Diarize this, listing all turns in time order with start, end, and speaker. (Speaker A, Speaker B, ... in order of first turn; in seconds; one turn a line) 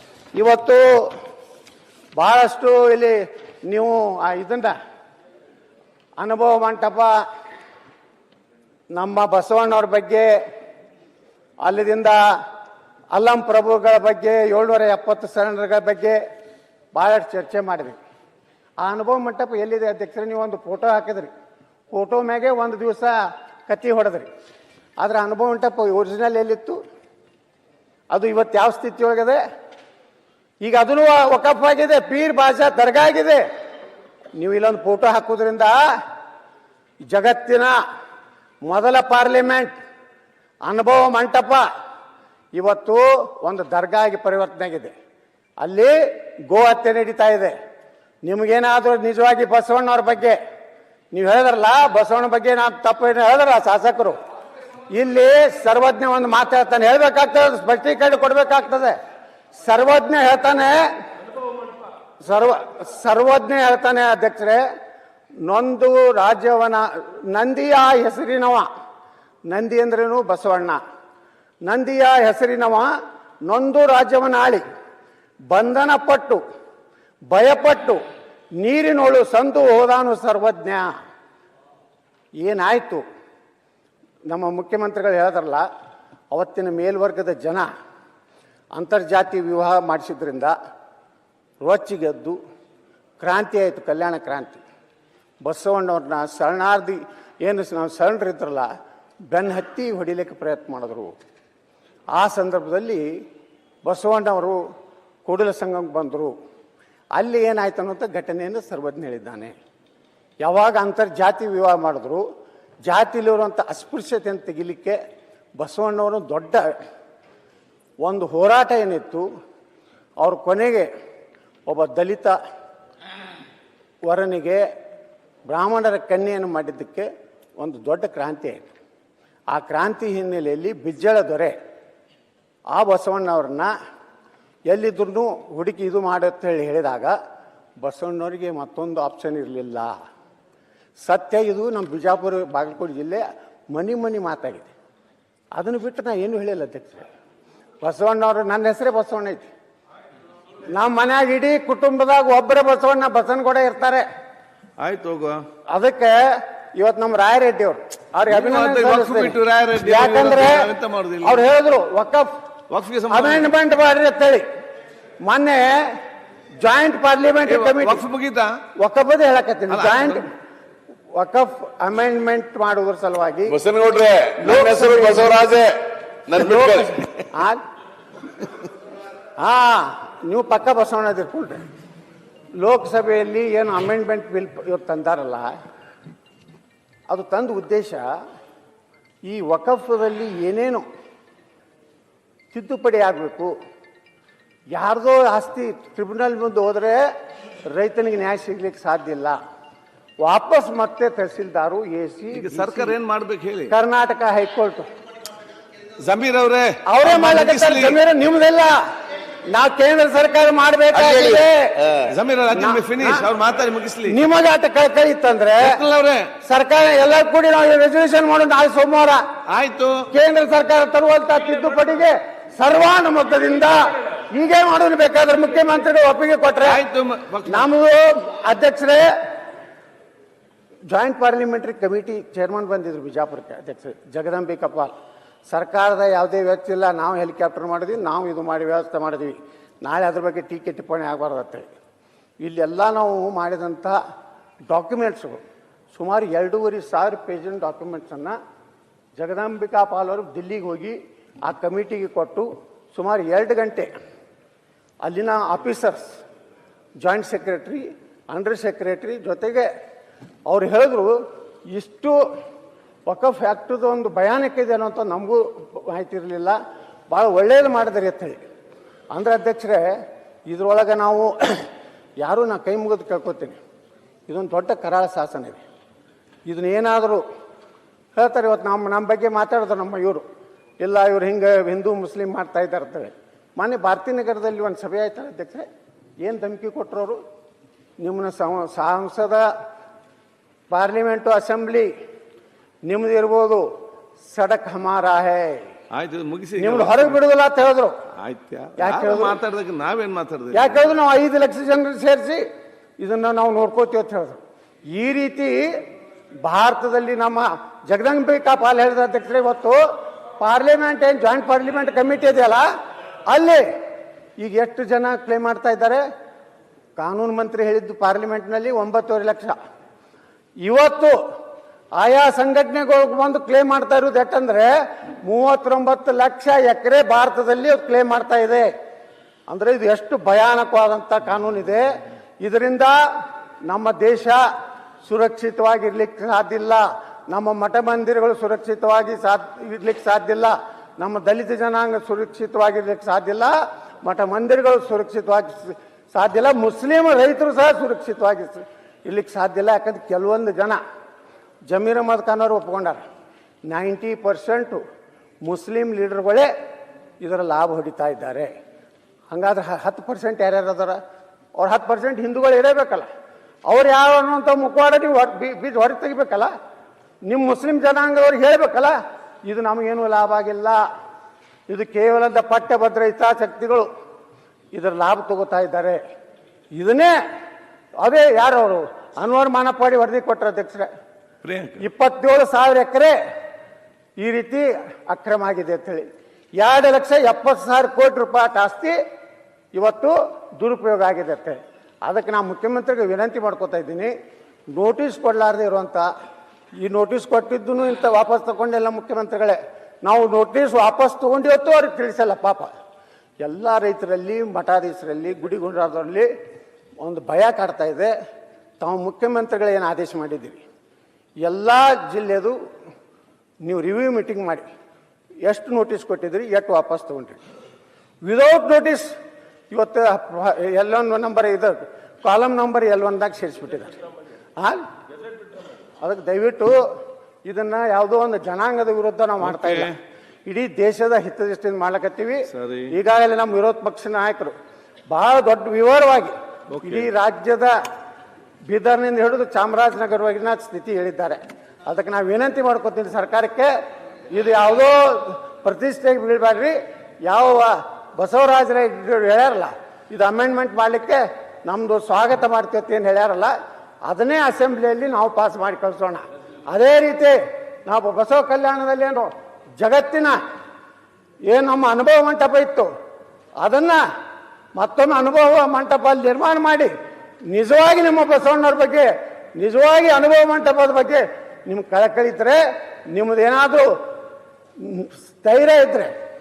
Speaker A: 0.4-1.1
Speaker A: 2.2-4.7
Speaker A: 6.2-7.1
Speaker A: 8.9-10.3
Speaker A: 11.6-12.2
Speaker A: 13.1-16.2
Speaker A: 16.9-18.0
Speaker A: 18.8-21.3
Speaker A: 21.9-23.2
Speaker A: 23.7-24.3
Speaker A: 25.0-26.8
Speaker A: 28.1-29.4
Speaker A: 30.6-33.4
Speaker A: 34.4-35.8
Speaker A: 37.1-37.8
Speaker A: 38.7-39.7
Speaker A: 40.7-41.7
Speaker A: 42.5-44.9
Speaker A: 45.6-47.5
Speaker A: 48.2-50.4
Speaker A: 51.1-54.2
Speaker A: 54.9-59.0
Speaker A: 59.6-60.9
Speaker A: 62.2-64.6
Speaker A: 65.4-68.7
Speaker A: 69.5-70.8
Speaker A: 71.7-72.9
Speaker A: 73.5-74.6
Speaker A: 75.5-76.4
Speaker A: 77.3-78.0
Speaker A: 78.6-80.9
Speaker A: 82.4-83.0
Speaker A: 84.3-85.7
Speaker A: 86.3-87.7
Speaker A: 88.8-90.5
Speaker A: 91.6-92.4
Speaker A: 93.2-94.6
Speaker A: 95.4-98.7
Speaker A: 99.3-101.1
Speaker A: 102.2-103.0
Speaker A: 103.8-104.6
Speaker A: 105.2-106.3
Speaker A: 107.2-109.5
Speaker A: 110.4-112.2
Speaker A: 112.9-115.0
Speaker A: 115.6-116.7
Speaker A: 118.0-119.3
Speaker A: 120.2-120.9
Speaker A: 121.7-122.3
Speaker A: 124.1-124.6
Speaker A: 125.5-128.7
Speaker A: 129.5-131.6
Speaker A: 132.7-133.7
Speaker A: 134.7-137.2
Speaker A: 137.8-139.9
Speaker A: 141.0-144.7
Speaker A: 145.6-147.1
Speaker A: 147.8-149.5
Speaker A: 150.7-154.1
Speaker B: 154.8-155.4
Speaker A: 155.7-160.7
Speaker B: 158.3-161.4
Speaker A: 161.2-162.3
Speaker B: 162.7-163.5
Speaker A: 163.1-164.4
Speaker A: 165.2-166.0
Speaker A: 166.6-168.0
Speaker B: 167.5-168.6
Speaker A: 168.8-170.3
Speaker B: 169.7-170.2
Speaker A: 171.2-173.7
Speaker C: 173.7-175.8
Speaker A: 174.4-175.6
Speaker A: 176.3-177.6
Speaker A: 179.4-181.6
Speaker A: 182.6-185.5
Speaker A: 187.1-188.1
Speaker A: 189.3-190.8
Speaker A: 192.5-193.5
Speaker A: 194.7-197.1
Speaker A: 197.7-199.4
Speaker A: 200.2-203.0
Speaker B: 202.3-203.7
Speaker A: 203.7-204.9
Speaker B: 206.0-208.0
Speaker A: 206.8-208.8
Speaker A: 209.5-211.9
Speaker B: 212.0-214.2
Speaker A: 212.6-213.3
Speaker A: 214.1-215.8
Speaker B: 215.6-216.4
Speaker A: 216.4-219.2
Speaker B: 219.5-220.1
Speaker A: 220.1-226.8
Speaker B: 226.6-227.7
Speaker A: 227.5-229.1
Speaker A: 230.9-234.9
Speaker A: 235.5-241.7
Speaker A: 242.4-244.0
Speaker A: 244.7-245.4
Speaker A: 245.9-248.3
Speaker A: 249.2-253.9
Speaker A: 255.0-256.1
Speaker A: 257.0-259.7
Speaker A: 260.5-261.2
Speaker A: 261.7-262.2
Speaker A: 263.1-266.6
Speaker A: 267.1-268.4
Speaker A: 269.1-269.9
Speaker A: 270.5-271.7
Speaker A: 272.2-273.6
Speaker A: 274.3-275.6
Speaker A: 276.5-277.2
Speaker A: 278.2-280.2
Speaker A: 280.8-285.7
Speaker A: 286.2-287.2
Speaker A: 288.0-289.5
Speaker A: 290.7-291.9
Speaker A: 292.9-293.7
Speaker A: 294.3-295.7
Speaker B: 295.9-297.2
Speaker A: 296.6-298.0
Speaker B: 298.1-300.9
Speaker A: 298.8-299.4
Speaker A: 300.5-302.4
Speaker A: 303.0-305.8
Speaker A: 306.4-309.8
Speaker A: 310.4-312.7
Speaker A: 313.3-313.7
Speaker A: 314.4-316.0
Speaker A: 317.0-319.6
Speaker A: 320.6-321.2
Speaker A: 322.0-328.7
Speaker A: 329.5-331.9
Speaker A: 332.4-333.0
Speaker A: 333.7-334.4
Speaker A: 335.1-350.8
Speaker A: 351.7-353.0
Speaker A: 353.7-354.8
Speaker A: 355.4-356.5
Speaker A: 357.2-358.5
Speaker A: 359.3-361.0
Speaker A: 361.6-363.1
Speaker A: 363.7-366.5
Speaker A: 367.3-369.0
Speaker A: 369.5-370.8
Speaker A: 371.7-373.9
Speaker A: 374.7-376.0
Speaker A: 376.8-377.2
Speaker A: 378.0-380.9
Speaker B: 381.4-381.8
Speaker A: 381.8-383.2
Speaker A: 384.2-389.0
Speaker A: 389.7-394.1
Speaker A: 394.7-396.1
Speaker A: 396.8-402.7
Speaker A: 403.4-406.3
Speaker A: 407.0-408.1
Speaker A: 408.8-410.6
Speaker A: 411.4-412.6
Speaker A: 413.6-414.7
Speaker A: 415.4-417.4
Speaker A: 418.2-419.2
Speaker A: 419.7-424.0
Speaker A: 424.6-424.8
Speaker A: 426.0-426.8
Speaker A: 427.4-434.5
Speaker B: 429.4-430.0
Speaker B: 432.5-433.0
Speaker A: 435.1-437.8
Speaker B: 436.7-437.1
Speaker A: 438.7-443.7
Speaker A: 444.3-453.5
Speaker A: 454.1-460.4
Speaker A: 461.5-462.9
Speaker A: 463.6-464.0
Speaker A: 464.8-466.9
Speaker A: 467.5-473.9
Speaker A: 474.8-476.1